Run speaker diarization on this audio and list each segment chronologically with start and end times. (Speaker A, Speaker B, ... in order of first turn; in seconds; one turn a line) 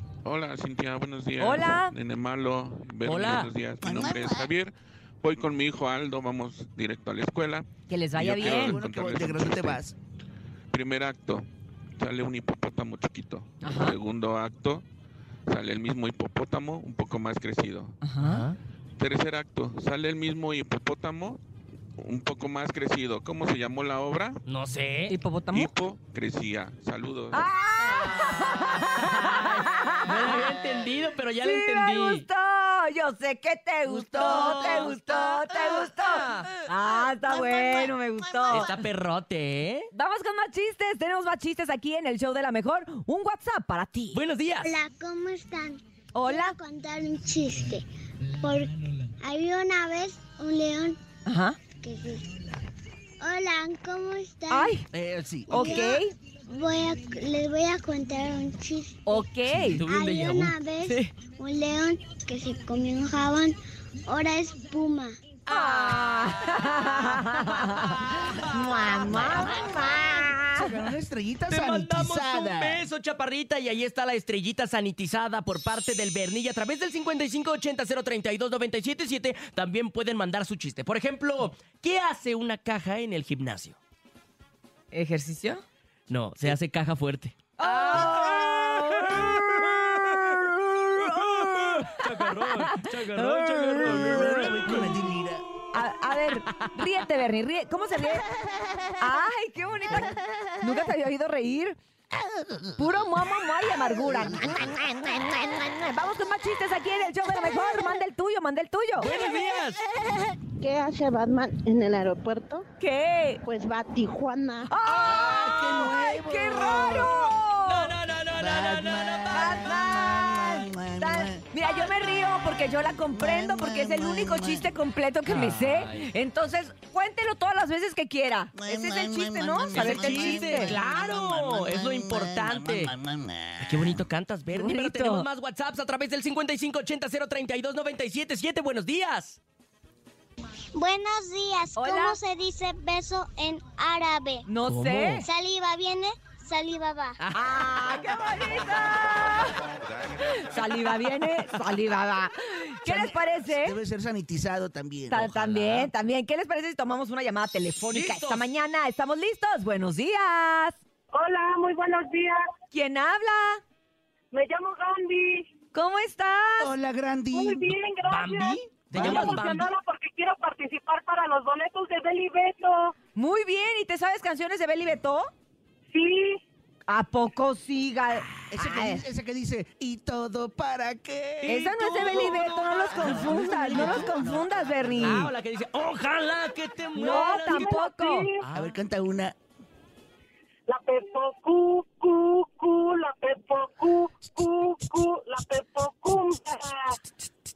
Speaker A: 0.2-9.8
Speaker B: 1.4-1.9
Speaker C: 3.0-3.5
Speaker D: 3.8-4.5
Speaker B: 7.9-8.8
Speaker D: 8.4-9.9
Speaker A: 10.7-14.8
Speaker B: 13.6-14.0
Speaker A: 15.5-18.0
Speaker B: 18.0-18.4
Speaker C: 18.2-18.6
Speaker A: 19.0-21.4
Speaker A: 22.0-24.4
Speaker C: 24.5-25.1
Speaker B: 25.1-25.7
Speaker A: 25.5-27.5
Speaker B: 27.3-30.4
Speaker C: 28.1-32.2
Speaker B: 31.4-38.7
Speaker D: 33.8-35.8
Speaker C: 34.1-36.5
Speaker D: 37.0-38.8
Speaker C: 38.5-39.9
Speaker B: 39.9-44.2
Speaker C: 44.1-44.8
Speaker E: 44.6-51.0
Speaker B: 46.1-46.5
Speaker B: 51.2-51.6
Speaker E: 51.8-52.3
Speaker E: 53.2-54.8
Speaker B: 54.5-54.8
Speaker D: 54.9-55.7
Speaker B: 55.5-56.1
Speaker E: 55.5-59.2
Speaker B: 59.1-59.8
Speaker C: 59.5-60.6
Speaker E: 59.8-65.2
Speaker B: 60.8-61.1
Speaker C: 65.5-69.6
Speaker B: 65.5-70.9
Speaker D: 70.5-72.9
Speaker C: 71.5-83.8
Speaker B: 84.9-85.6
Speaker C: 86.1-95.0
Speaker B: 87.6-94.8
Speaker D: 93.8-95.4
Speaker B: 95.7-98.2
Speaker B: 99.0-101.8
Speaker B: 102.7-109.1
Speaker C: 109.0-109.8
Speaker F: 110.6-112.7
Speaker B: 112.8-113.4
Speaker F: 113.4-114.7
Speaker B: 114.7-117.9
Speaker D: 114.9-117.1
Speaker C: 114.9-116.0
Speaker C: 117.6-119.7
Speaker D: 118.4-121.4
Speaker B: 119.3-130.8
Speaker D: 123.1-124.7
Speaker C: 125.3-126.1
Speaker D: 128.5-134.0
Speaker C: 129.7-132.9
Speaker C: 133.6-139.4
Speaker B: 134.5-135.2
Speaker E: 140.7-144.5
Speaker B: 141.8-142.2
Speaker B: 144.5-145.2
Speaker C: 144.7-145.2
Speaker E: 145.2-147.2
Speaker B: 147.3-149.6
Speaker B: 150.2-153.8
Speaker D: 152.8-155.3
Speaker B: 155.1-160.8
Speaker C: 155.3-155.9
Speaker C: 157.9-158.4
Speaker G: 161.1-162.4
Speaker B: 162.7-163.6
Speaker G: 164.3-165.5
Speaker B: 165.7-166.7
Speaker D: 166.6-167.7
Speaker G: 167.3-172.9
Speaker C: 168.0-169.7
Speaker B: 169.0-169.4
Speaker B: 173.2-175.3
Speaker G: 175.9-176.4
Speaker B: 176.9-179.1
Speaker D: 178.5-181.6
Speaker C: 181.4-184.2
Speaker B: 181.4-185.3
Speaker D: 182.9-185.3
Speaker C: 185.0-187.8
Speaker B: 186.9-188.3
Speaker G: 187.0-188.4
Speaker C: 188.4-188.8
Speaker D: 188.5-189.3
Speaker G: 190.7-197.0